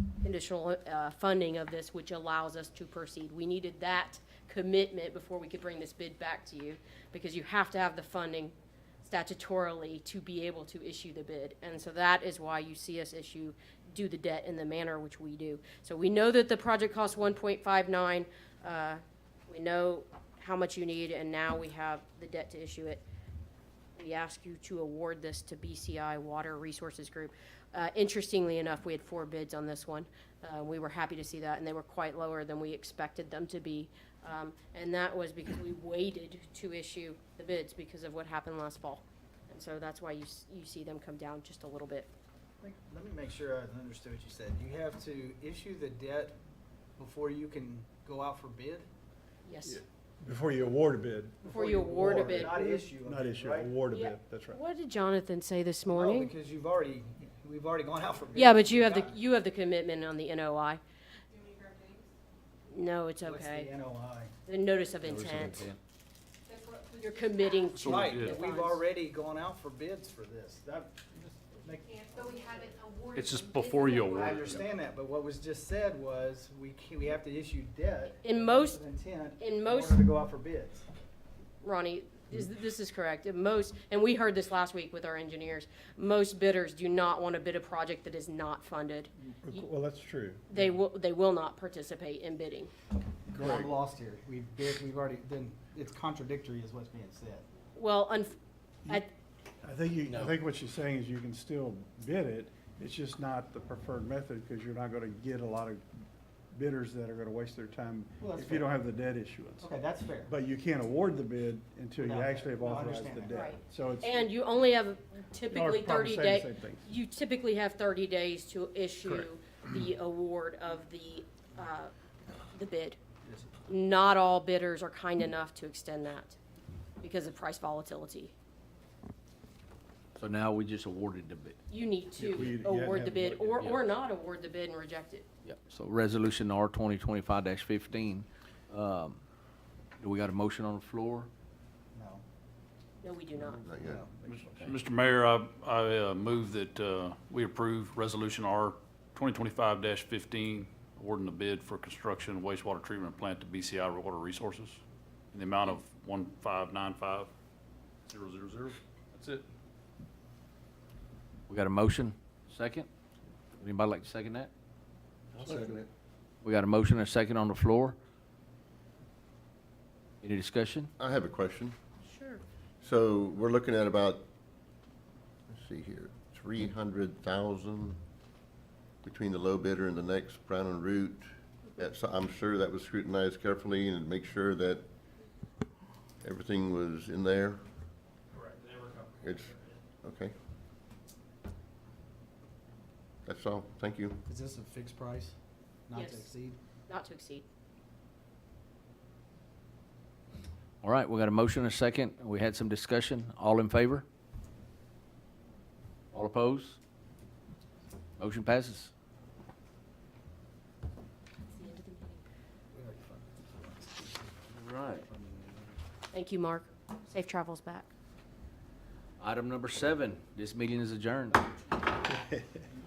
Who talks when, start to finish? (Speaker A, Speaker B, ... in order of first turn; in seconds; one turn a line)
Speaker A: 0.2-23.0
Speaker A: 24.0-42.1
Speaker B: 42.6-46.4
Speaker B: 47.0-48.9
Speaker A: 49.5-49.8
Speaker C: 49.7-54.6
Speaker A: 51.5-52.6
Speaker B: 51.5-53.7
Speaker A: 53.9-56.3
Speaker B: 55.9-59.2
Speaker A: 58.4-60.8
Speaker D: 61.3-62.1
Speaker A: 62.7-63.7
Speaker B: 63.2-64.3
Speaker A: 64.5-65.7
Speaker E: 65.0-65.8
Speaker D: 66.5-67.8
Speaker A: 66.9-68.8
Speaker F: 67.8-68.4
Speaker B: 67.8-72.7
Speaker D: 71.9-74.4
Speaker F: 73.2-74.7
Speaker B: 74.1-80.8
Speaker A: 78.2-78.8
Speaker A: 79.4-80.0
Speaker A: 81.6-89.7
Speaker C: 89.3-90.7
Speaker A: 90.5-92.7
Speaker B: 93.3-97.5
Speaker C: 93.3-93.7
Speaker A: 97.8-99.1
Speaker C: 99.6-105.8
Speaker E: 100.1-100.3
Speaker C: 106.5-109.7
Speaker B: 108.2-108.7
Speaker B: 109.6-110.3
Speaker C: 110.3-114.3
Speaker B: 112.0-113.4
Speaker A: 113.3-121.9
Speaker C: 115.5-116.8
Speaker A: 122.5-123.0
Speaker A: 123.7-126.4
Speaker A: 127.0-128.3
Speaker E: 130.2-131.6
Speaker A: 131.7-135.3
Speaker C: 132.2-133.8
Speaker E: 135.4-139.2
Speaker E: 140.0-141.3
Speaker B: 141.9-142.2
Speaker A: 143.0-143.7
Speaker G: 143.6-144.0
Speaker B: 143.9-144.1
Speaker C: 144.2-144.8
Speaker F: 144.3-154.8
Speaker F: 155.3-157.3
Speaker F: 158.1-159.5
Speaker E: 161.5-162.9
Speaker E: 163.6-164.5
Speaker G: 165.4-165.8
Speaker E: 166.4-168.0
Speaker E: 170.2-170.9
Speaker G: 171.0-171.8
Speaker A: 172.0-172.4
Speaker G: 172.8-174.2
Speaker G: 175.5-178.0
Speaker G: 179.0-184.8
Speaker G: 186.2-187.6
Speaker G: 189.2-190.3
Speaker G: 193.3-194.2
Speaker B: 194.3-195.3
Speaker B: 195.9-196.6
Speaker A: 195.9-196.3
Speaker A: 196.9-197.4
Speaker E: 200.8-204.1
Speaker E: 206.1-206.8
Speaker E: 208.2-208.9
Speaker A: 211.5-212.2
Speaker B: 212.7-214.2
Speaker E: 214.5-215.1
Speaker B: 215.1-215.7
Speaker A: 216.1-217.9
Speaker E: 219.2-221.5
Speaker C: 222.1-222.4